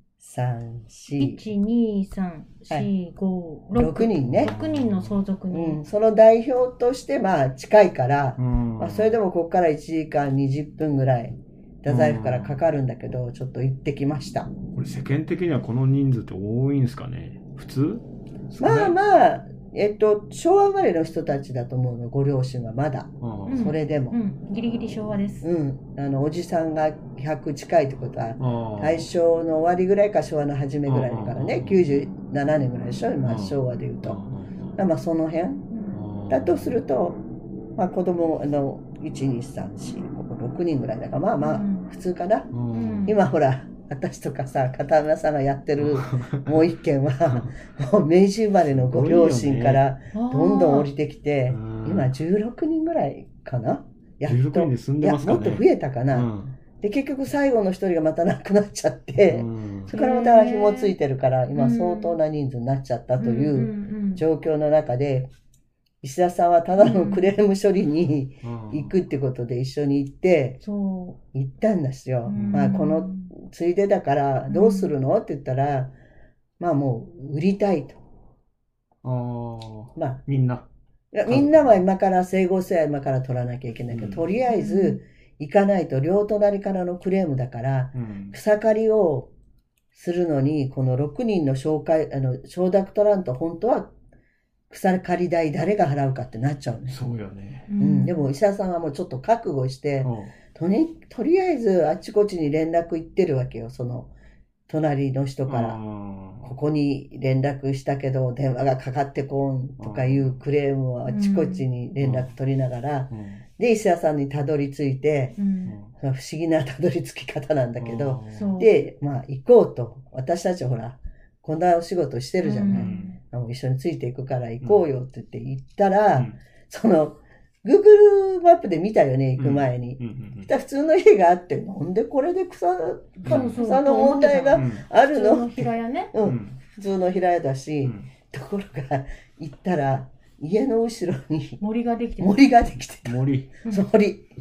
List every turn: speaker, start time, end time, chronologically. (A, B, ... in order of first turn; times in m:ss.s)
0:00.2-0:01.5 A
0:01.2-0:05.8 B
0:03.7-0:04.5 A
0:04.3-0:05.2 C
0:05.5-0:14.5 A
0:08.4-0:09.1 C
0:11.8-0:12.6 C
0:14.7-0:19.0 C
0:18.6-0:24.2 A
0:23.2-0:23.6 C
0:23.5-0:25.5 B
0:25.4-0:34.2 A
0:28.4-0:29.1 C
0:30.8-0:31.8 C
0:33.2-0:34.8 C
0:34.8-0:35.7 A
0:35.9-0:36.8 C
0:36.3-0:37.2 A
0:37.8-1:05.3 A
0:41.4-0:41.9 B
0:42.5-0:43.1 C
0:42.7-0:43.2 B
0:45.8-0:46.5 C
0:48.7-0:49.8 C
0:50.1-0:50.9 B
0:51.5-0:52.1 C
0:54.2-0:56.6 C
0:59.3-0:59.9 C
0:59.9-1:00.9 B
1:01.5-1:02.2 B
1:03.2-1:04.2 B
1:06.0-1:10.6 A
1:06.8-1:07.3 B
1:08.4-1:08.9 C
1:10.6-1:11.2 B
1:11.3-1:15.9 A
1:12.2-1:13.3 B
1:12.3-1:12.7 C
1:14.5-1:14.9 B
1:16.6-1:18.0 A
1:19.0-1:20.6 C
1:20.0-1:20.2 A
1:21.1-1:29.3 A
1:21.3-1:21.8 C
1:23.9-1:24.2 C
1:24.5-1:25.0 B
1:27.9-1:28.4 C
1:29.9-1:33.9 A
1:34.7-1:37.0 A
1:36.9-1:37.7 C
1:37.7-1:38.3 B
1:37.8-1:44.1 A
1:40.0-1:40.3 C
1:44.7-1:45.8 A
1:45.4-1:46.5 C
1:46.4-1:55.4 A
1:49.8-1:50.4 C
1:51.1-1:51.6 B
1:52.0-1:52.3 C
1:53.1-1:53.4 C
1:55.4-1:55.8 B
1:55.6-1:55.9 C
1:56.0-2:21.6 A
1:57.8-1:58.6 C
1:58.3-1:58.7 B
2:02.4-2:03.2 B
2:02.7-2:03.1 C
2:04.6-2:04.9 C
2:09.4-2:10.5 C
2:13.2-2:16.1 B
2:13.2-2:13.6 C
2:14.5-2:14.8 C
2:16.2-2:16.6 C
2:21.6-2:22.4 B
2:22.2-2:24.3 A
2:23.0-2:23.5 C